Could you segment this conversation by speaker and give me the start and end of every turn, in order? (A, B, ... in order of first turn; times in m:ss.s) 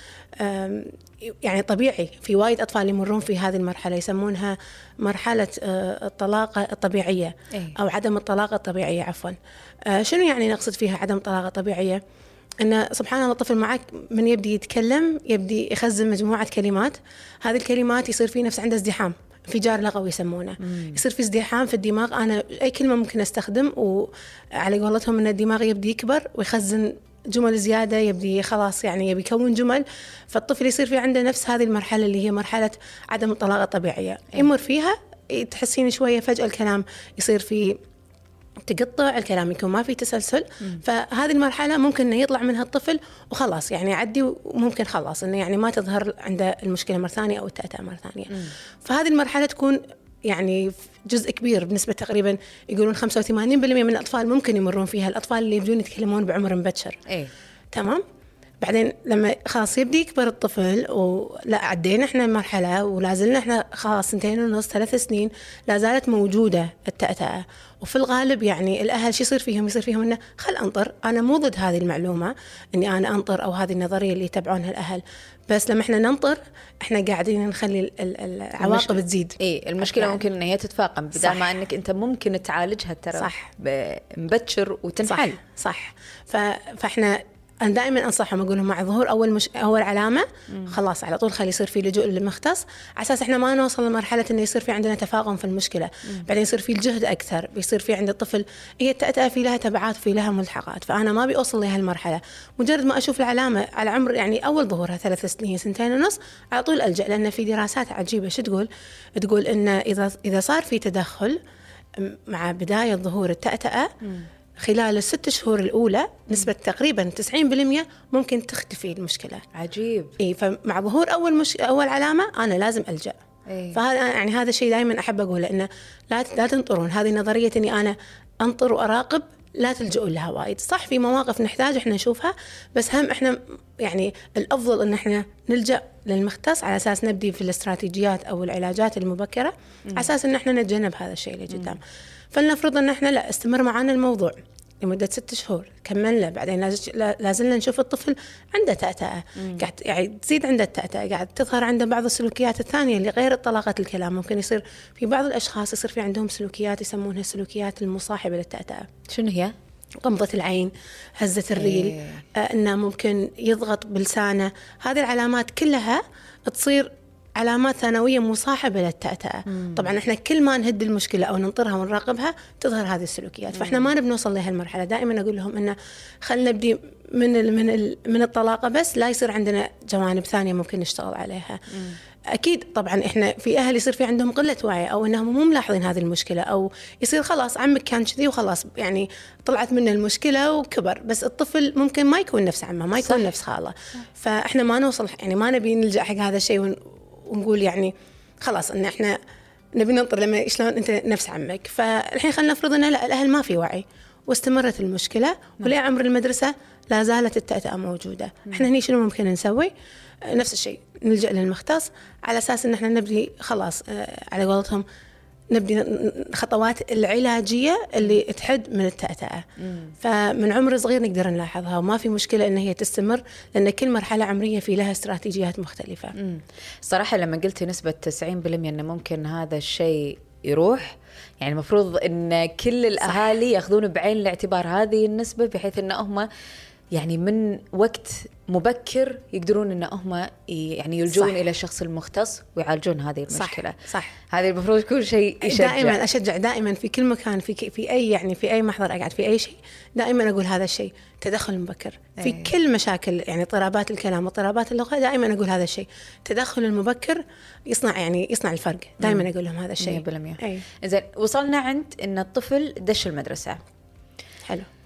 0:00.4-0:12.0 A
0:12.6-0:37.8 A
0:20.6-0:21.0 B
0:38.6-0:57.0 A
0:57.1-0:57.3 B
0:57.7-0:58.0 A
0:58.6-1:20.2 A
1:18.6-1:25.4 B
1:21.2-1:21.6 A
1:23.2-1:23.5 A
1:25.0-1:51.4 A
1:52.0-1:53.9 A
1:54.6-1:59.4 A
1:59.5-2:00.1 B
2:00.2-2:03.2 A
2:03.5-2:03.8 B
2:03.7-2:21.8 A
2:22.3-2:38.9 A
2:39.1-2:39.5 B
2:40.0-3:19.2 A
2:41.6-2:42.2 B
2:49.5-2:49.8 B
2:53.6-2:53.8 B
3:19.7-3:29.7 A
3:30.2-3:34.8 A
3:35.5-3:39.5 A
3:40.0-3:46.2 A
3:46.2-3:56.3 B
3:53.1-3:53.3 A
3:56.9-4:06.0 B
4:03.3-4:04.1 A
4:05.4-4:20.6 A
4:12.2-4:12.5 B
4:19.0-4:19.2 B
4:19.8-4:23.6 B